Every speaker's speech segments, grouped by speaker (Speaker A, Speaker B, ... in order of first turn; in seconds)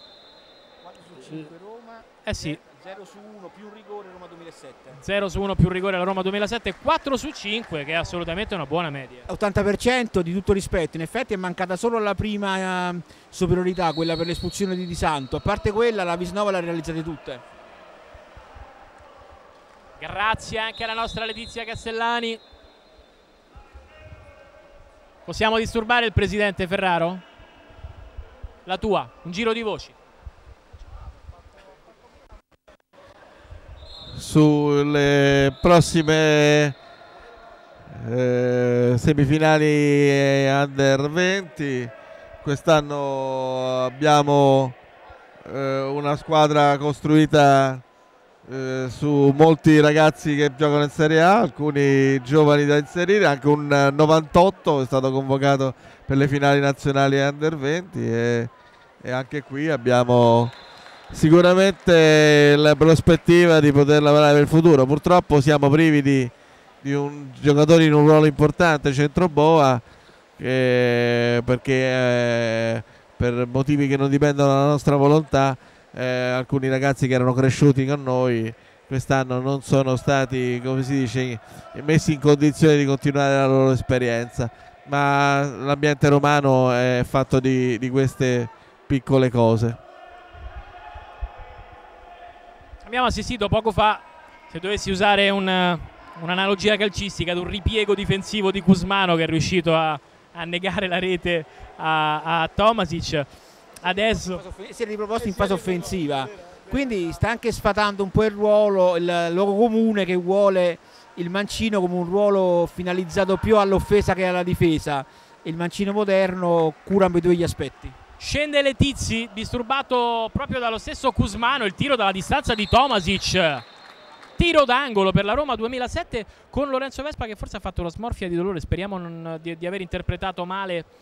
Speaker A: 0.8-5.0, 9.3-17.4, 104.4-118.0
Speaker B: 2.2-2.6, 5.0-9.3, 20.0-22.4, 25.3-27.2, 28.7-29.9, 92.8-103.3, 103.8-104.4, 118.2-123.7, 124.4-130.9
Speaker C: 34.1-36.8, 37.9-44.8, 45.5-47.8, 48.5-58.5, 59.0-60.5, 61.1-66.3, 66.8-69.8, 70.4-89.8